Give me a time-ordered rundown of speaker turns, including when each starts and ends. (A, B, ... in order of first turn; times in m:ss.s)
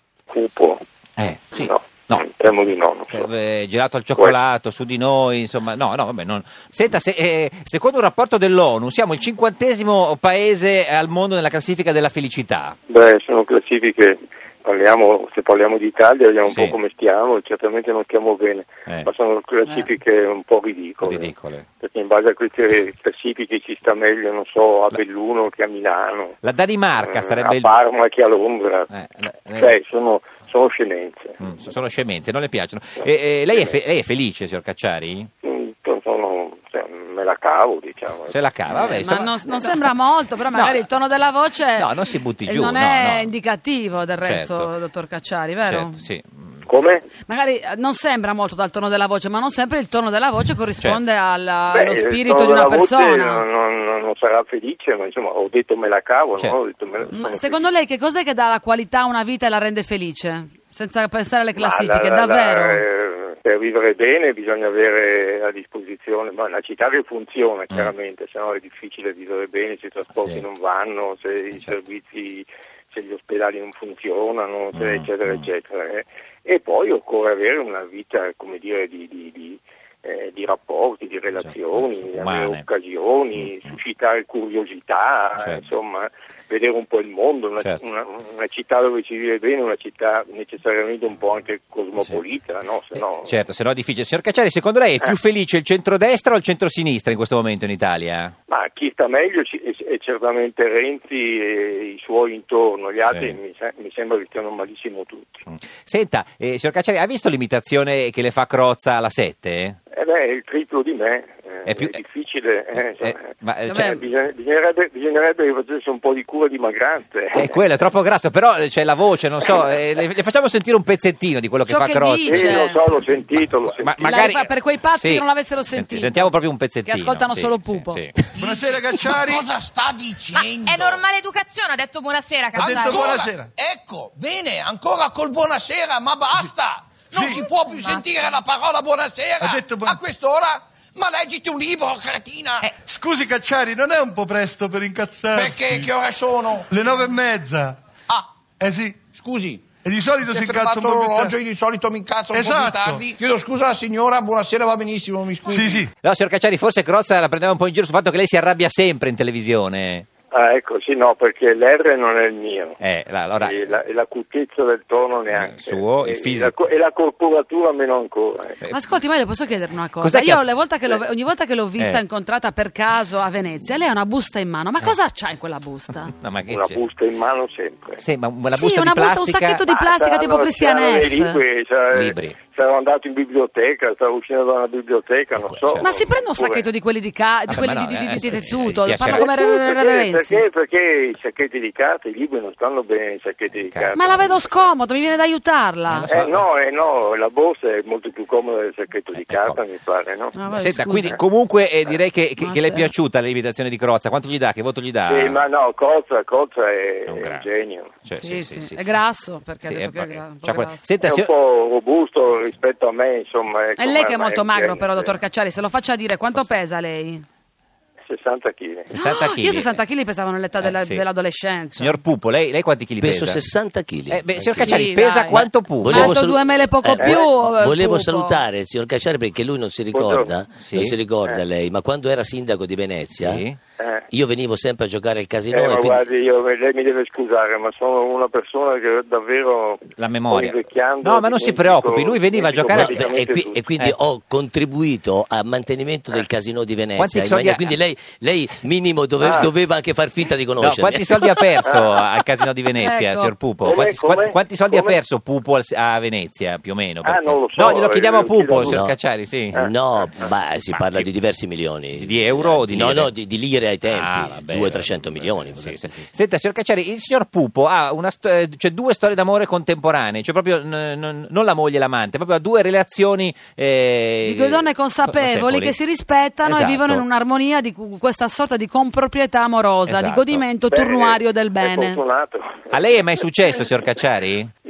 0:00.3-0:00.8 A
0:01.2-0:02.2 B
0:01.5-0:03.3 A
0:03.1-0:12.8 B
0:12.9-0:26.4 A
0:16.4-0:16.8 B
0:21.0-0:21.7 B
0:26.4-0:27.7 B
0:27.0-0:28.9 A
0:28.9-0:29.7 B
0:29.5-0:31.4 A
0:31.4-0:35.3 B
0:35.4-0:38.4 A
0:38.3-0:39.9 B
0:38.7-0:41.9 C
0:40.5-0:40.8 B
0:41.7-0:43.3 B
0:42.4-0:46.0 C
0:44.2-0:44.7 B
0:45.6-0:46.6 B
0:46.6-0:47.1 A
0:47.2-0:53.4 C
0:51.7-0:57.7 A
0:57.1-1:02.8 C
1:01.5-1:33.3 A
1:14.7-1:15.5 B
1:21.4-1:22.6 B
1:33.0-1:38.3 B
1:38.5-1:45.4 A
1:43.1-1:43.4 B
1:45.5-1:49.8 B
1:49.9-1:57.6 A
1:51.6-1:52.0 B
1:52.7-1:54.0 B
1:57.3-2:02.7 B
2:01.7-2:02.8 C
2:02.2-2:04.4 A
2:03.7-2:08.1 B
2:04.0-2:08.1 C
2:08.3-2:09.4 D
2:08.3-2:11.1 E
2:10.4-2:12.9 F
2:12.5-2:22.7 E
2:12.6-2:13.5 D
2:17.1-2:17.4 D
2:19.4-2:20.0 D
2:22.8-2:25.9 D
2:25.3-2:27.0 E
2:26.7-2:27.8 D
2:28.6-2:29.0 D
2:29.0-2:29.7 E
2:29.8-2:31.4 D
2:30.2-2:35.8 E
2:32.3-2:33.0 D
2:35.5-2:35.9 D
2:36.0-2:40.0 B
2:40.3-2:42.8 A
2:42.8-2:43.8 B
2:43.4-2:48.6 A
2:45.3-2:46.5 B
2:48.7-2:56.1 C
2:50.0-2:50.4 B
2:56.1-2:56.8 B
2:56.5-2:58.0 A
2:58.0-2:59.6 B
2:58.5-3:01.4 C
2:59.6-3:06.7 A
3:01.9-3:02.4 B
3:05.4-3:05.9 B
3:05.8-3:10.4 C
3:07.5-3:09.3 B
3:09.0-3:14.7 A
3:13.5-3:14.0 B
3:13.9-3:16.1 C
3:15.9-3:16.4 B
3:16.1-3:20.4 A
3:19.1-3:19.6 B
3:20.3-3:21.2 C
3:20.5-3:25.4 B
3:22.4-3:22.9 C
3:25.1-3:28.0 A
3:27.1-3:27.5 B
3:28.0-3:28.8 B
3:28.1-3:30.9 C
3:29.6-3:31.3 B
3:31.0-3:35.2 A
3:33.8-3:37.2 C
3:38.0-3:38.9 A
3:38.9-3:42.0 C
3:38.9-3:39.7 B
3:40.6-3:41.0 B
3:41.7-3:43.4 B
3:43.0-3:44.8 G
3:44.1-3:46.2 B
3:44.5-3:48.4 C
3:45.8-3:53.4 G
3:47.0-3:47.3 A
3:49.9-3:50.4 A
3:50.6-3:51.0 B
3:53.2-3:53.6 B
3:53.8-3:54.0 A
3:54.1-3:56.0 G
3:55.5-4:03.7 A
4:00.0-4:03.0 B
4:02.7-4:11.2 G
4:06.9-4:07.8 B
4:09.2-4:09.5 B
4:10.6-4:19.6 B
4:11.6-4:11.9 A
4:12.7-4:13.3 C
4:13.6-4:15.0 A
4:17.0-4:18.9 A
4:19.5-4:20.1 A
4:19.6-4:25.9 G
4:20.7-4:21.1 B
4:21.9-4:23.1 B
4:23.9-4:35.8 B
4:34.2-4:42.0 C
4:36.4-4:37.0 B
4:39.8-4:40.4 B
4:40.7-4:43.1 A
4:42.7-4:44.5 B